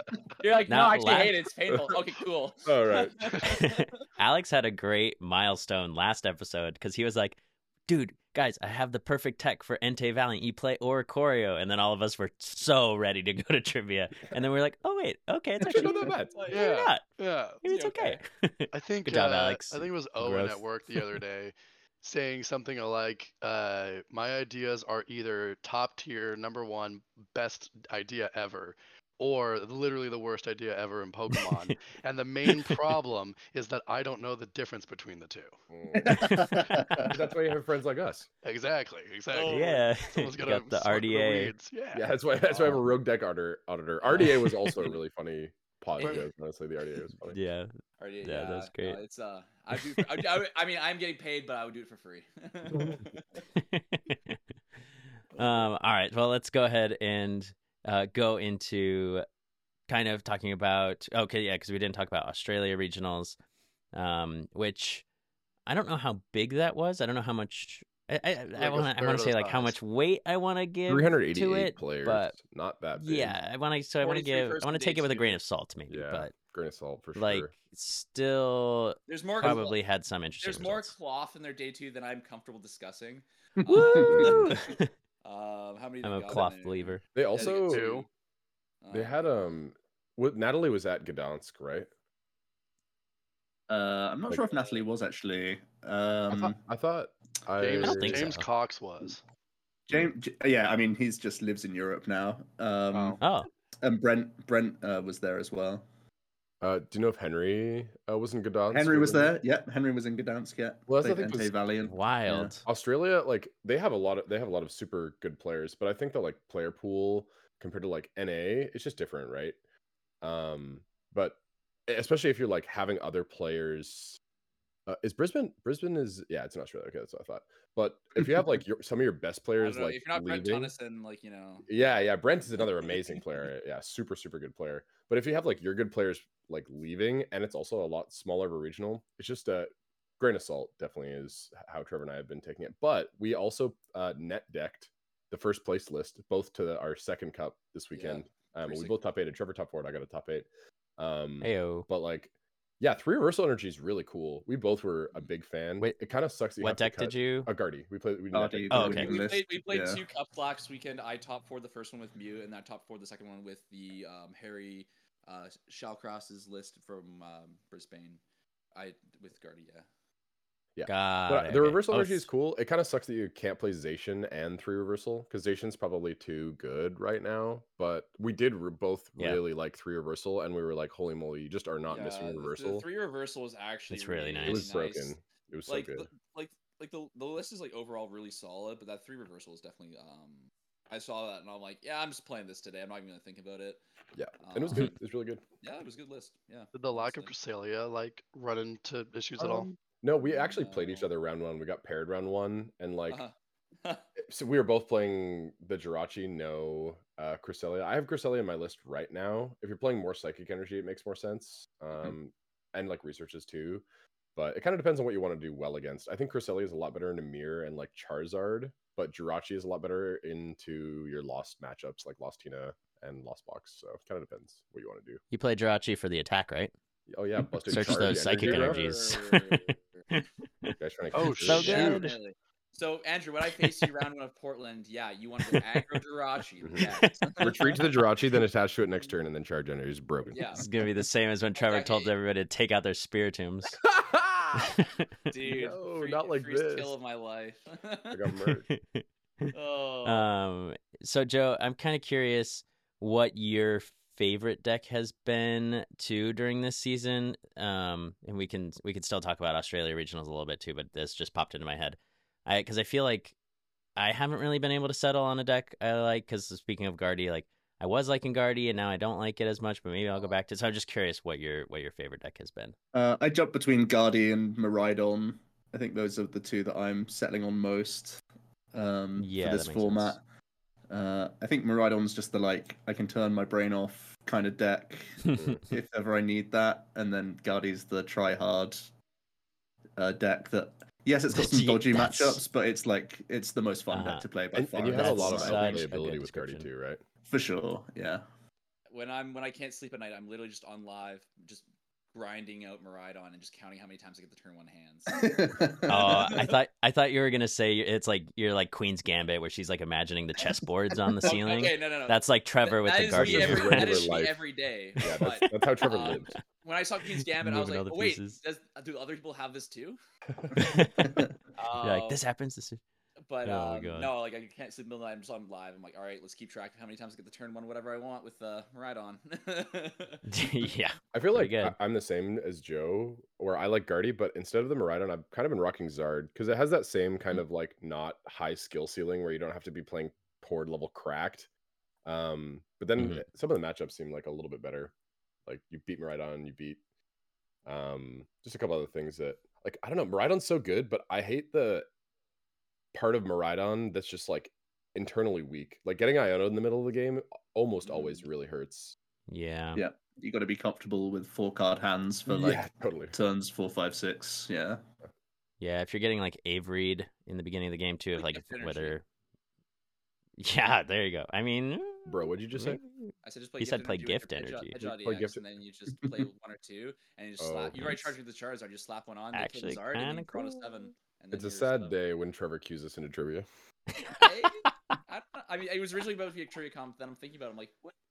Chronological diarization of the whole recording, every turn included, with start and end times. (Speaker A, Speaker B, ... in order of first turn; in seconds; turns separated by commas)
Speaker A: 0.4-3.9, Speaker B: 0.7-1.4, Speaker C: 2.6-3.3, Speaker B: 3.4-17.0, Speaker C: 15.6-16.5, Speaker A: 16.0-16.6, Speaker D: 16.5-17.6, Speaker B: 17.6-21.2, Speaker A: 17.6-18.2, Speaker D: 18.7-35.5, Speaker B: 31.3-31.8, Speaker B: 32.5-32.8, Speaker C: 35.7-36.3, Speaker E: 36.0-37.1, Speaker B: 36.2-37.1, Speaker C: 37.1-38.3, Speaker D: 38.4-42.1, Speaker A: 39.3-39.9, Speaker B: 39.5-41.5, Speaker C: 41.9-47.4, Speaker B: 44.1-44.8, Speaker A: 46.0-46.3, Speaker B: 47.3-47.7, Speaker A: 48.0-53.2, Speaker B: 48.2-49.0, Speaker B: 49.7-50.0, Speaker B: 53.6-54.4, Speaker B: 55.4-59.2, Speaker A: 55.4-55.7, Speaker B: 59.9-63.4, Speaker B: 63.9-65.0, Speaker B: 65.7-72.4, Speaker D: 68.5-69.8, Speaker C: 70.9-73.4, Speaker B: 73.0-76.3, Speaker A: 74.0-75.4, Speaker C: 75.9-77.5, Speaker B: 77.2-80.9, Speaker A: 79.1-79.8, Speaker A: 80.4-84.4, Speaker E: 83.6-84.4, Speaker B: 83.8-84.9, Speaker C: 84.1-84.5, Speaker A: 85.2-88.1, Speaker B: 86.0-87.0, Speaker C: 87.2-87.9, Speaker D: 87.4-88.1, Speaker A: 88.8-89.2, Speaker C: 88.9-91.9, Speaker E: 93.7-96.6, Speaker C: 96.3-98.3, Speaker D: 97.6-99.2, Speaker B: 97.8-98.5, Speaker E: 99.9-103.2, Speaker D: 102.9-103.2, Speaker B: 103.2-103.5, Speaker E: 103.8-105.8, Speaker C: 106.6-109.3, Speaker E: 108.7-112.6, Speaker C: 110.9-111.5, Speaker B: 111.8-112.7, Speaker C: 112.7-119.6, Speaker C: 120.2-124.2, Speaker C: 124.9-130.7, Speaker A: 129.6-131.7, Speaker C: 131.7-159.2, Speaker A: 147.9-149.0, Speaker B: 151.4-151.9, Speaker B: 156.6-157.5, Speaker E: 158.3-160.0, Speaker B: 158.7-159.1, Speaker A: 158.9-168.2, Speaker A: 168.8-169.9, Speaker C: 170.8-182.9, Speaker B: 170.9-172.3, Speaker A: 181.9-185.2, Speaker B: 183.9-184.7, Speaker C: 184.5-186.1, Speaker A: 185.7-193.8, Speaker C: 194.1-195.4, Speaker A: 194.4-195.0, Speaker A: 195.6-197.3, Speaker D: 196.7-199.7, Speaker C: 199.4-203.2, Speaker A: 200.2-201.1, Speaker C: 204.2-213.8, Speaker C: 214.4-225.2, Speaker B: 225.3-226.7, Speaker C: 227.1-229.0, Speaker B: 227.4-230.7, Speaker A: 228.4-230.2, Speaker C: 230.8-231.9, Speaker D: 231.1-232.1, Speaker B: 231.4-232.1, Speaker A: 231.5-237.9, Speaker B: 233.5-233.8, Speaker B: 235.4-235.8, Speaker C: 236.6-240.4, Speaker B: 236.8-237.2, Speaker A: 240.3-240.7, Speaker B: 240.6-243.8, Speaker A: 241.6-242.1, Speaker C: 243.8-244.8, Speaker B: 244.6-245.1, Speaker A: 245.3-248.2, Speaker C: 245.4-246.9, Speaker C: 248.1-248.7, Speaker B: 248.7-249.5, Speaker A: 249.5-250.3, Speaker B: 250.1-263.4, Speaker B: 264.0-272.8, Speaker E: 272.9-278.2, Speaker E: 278.7-280.2, Speaker B: 279.2-280.2, Speaker E: 280.9-288.9, Speaker C: 285.3-285.7, Speaker E: 290.0-295.9, Speaker B: 291.3-292.4, Speaker B: 293.9-294.2, Speaker C: 294.5-297.0, Speaker B: 294.9-296.7, Speaker E: 297.2-298.3, Speaker A: 298.9-305.2, Speaker E: 305.1-306.2, Speaker B: 305.9-314.1, Speaker A: 306.0-306.6, Speaker A: 311.2-320.0, Speaker C: 313.1-314.4, Speaker C: 315.0-316.3, Speaker B: 316.0-316.4, Speaker B: 317.2-318.4, Speaker B: 320.6-321.2, Speaker A: 321.6-322.2, Speaker B: 321.8-322.8, Speaker A: 323.2-330.2, Speaker B: 323.4-324.1, Speaker B: 330.3-331.8, Speaker C: 331.1-341.5, Speaker C: 342.1-344.9, Speaker B: 343.0-343.2, Speaker C: 345.5-346.8, Speaker C: 347.7-351.9, Speaker C: 352.9-358.9, Speaker A: 357.8-358.3, Speaker B: 359.3-359.8, Speaker E: 359.8-364.8, Speaker C: 362.3-363.1, Speaker B: 365.6-369.0, Speaker A: 368.2-368.9, Speaker B: 370.4-374.8, Speaker C: 372.1-372.8, Speaker A: 373.2-382.0, Speaker C: 374.9-375.4, Speaker C: 377.4-378.1, Speaker B: 379.3-380.9, Speaker C: 381.3-383.5, Speaker B: 383.9-385.0, Speaker A: 384.2-387.9